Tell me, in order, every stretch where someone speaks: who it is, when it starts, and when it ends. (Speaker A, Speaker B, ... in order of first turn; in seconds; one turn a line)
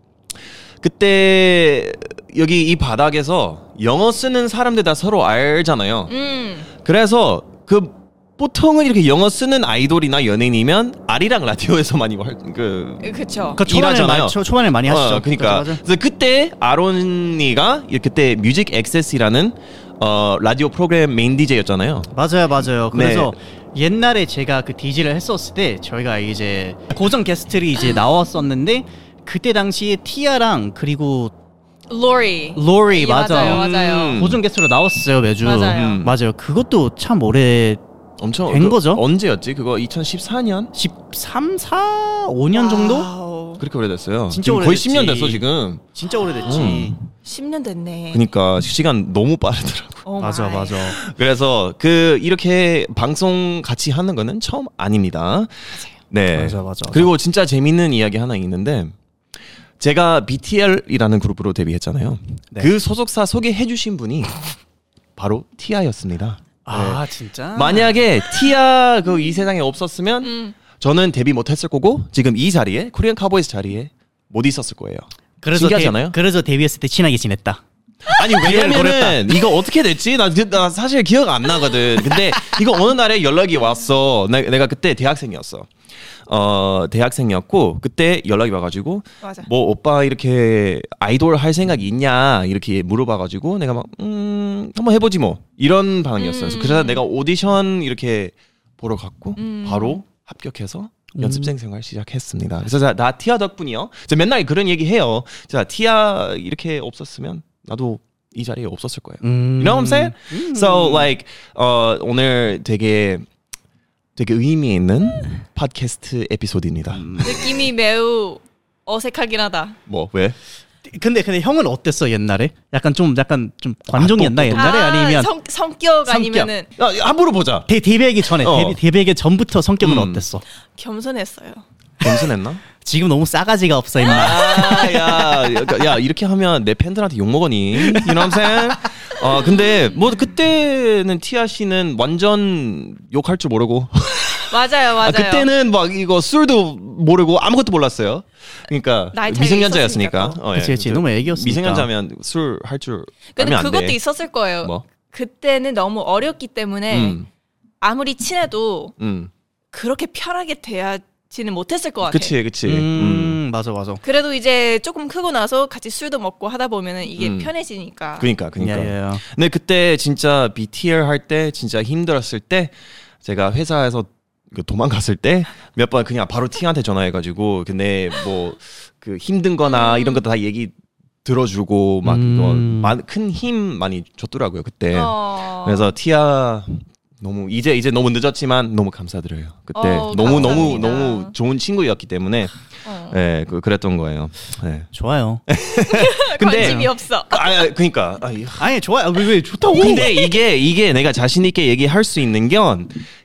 Speaker A: 0.8-6.1
Speaker B: 6.1-6.7
Speaker A: 6.8-22.1
Speaker B: 13.0-13.6
Speaker C: 13.6-15.8
Speaker C: 22.1-31.3
Speaker A: 22.9-23.3
Speaker B: 31.9-34.2
Speaker C: 32.5-37.8
Speaker A: 33.3-34.4
Speaker B: 35.4-36.0
Speaker A: 35.7-36.1
Speaker A: 38.2-40.7
Speaker C: 38.5-39.0
Speaker C: 40.7-43.1
Speaker B: 42.5-43.6
Speaker A: 43.6-45.8
Speaker C: 44.3-47.0
Speaker A: 46.4-46.9
Speaker B: 47.2-48.2
Speaker A: 48.1-50.0
Speaker B: 50.0-50.9
Speaker C: 50.2-51.0
Speaker A: 50.9-58.9
Speaker C: 56.3-57.1
Speaker A: 59.8-64.4
Speaker A: 65.2-76.2
Speaker C: 66.7-68.0
Speaker B: 70.2-70.5
Speaker C: 75.4-77.6
Speaker A: 78.0-85.7
Speaker C: 78.3-79.2
Speaker A: 86.3-113.3
Speaker B: 89.2-89.5
Speaker B: 96.2-97.0
Speaker B: 99.4-100.0
Speaker C: 101.1-101.5
Speaker C: 109.2-111.1
Speaker A: 114.2-117.5
Speaker C: 116.9-117.3
Speaker B: 117.2-119.8
Speaker A: 119.9-120.3
Speaker C: 120.8-125.3
Speaker A: 123.9-124.8
Speaker B: 124.5-126.7
Speaker C: 126.0-126.5
Speaker A: 126.8-127.7
Speaker C: 127.7-130.4
Speaker A: 128.3-128.8
Speaker A: 129.8-130.2
Speaker B: 130.8-131.6
Speaker A: 132.0-132.6
Speaker C: 132.8-134.7
Speaker A: 134.0-154.0
Speaker B: 134.1-135.5
Speaker C: 137.8-138.1
Speaker B: 139.3-140.2
Speaker B: 144.5-145.5
Speaker B: 149.1-150.4
Speaker C: 150.5-151.9
Speaker B: 153.3-157.2
Speaker A: 156.9-157.3
Speaker B: 157.8-158.9
Speaker A: 159.0-159.3
Speaker B: 159.7-162.3
Speaker A: 162.0-163.4
Speaker C: 162.6-164.0
Speaker B: 164.0-168.3
Speaker A: 167.2-167.5
Speaker A: 168.2-180.7
Speaker C: 168.6-169.2
Speaker B: 179.6-180.2
Speaker A: 181.2-194.9
Speaker C: 182.0-182.9
Speaker B: 184.9-185.9
Speaker B: 189.7-191.3
Speaker B: 192.8-193.2
Speaker C: 194.9-195.4
Speaker A: 195.5-198.7
Speaker B: 195.9-197.6
Speaker C: 196.6-196.9
Speaker C: 198.6-200.1
Speaker B: 199.7-200.3
Speaker A: 199.7-203.1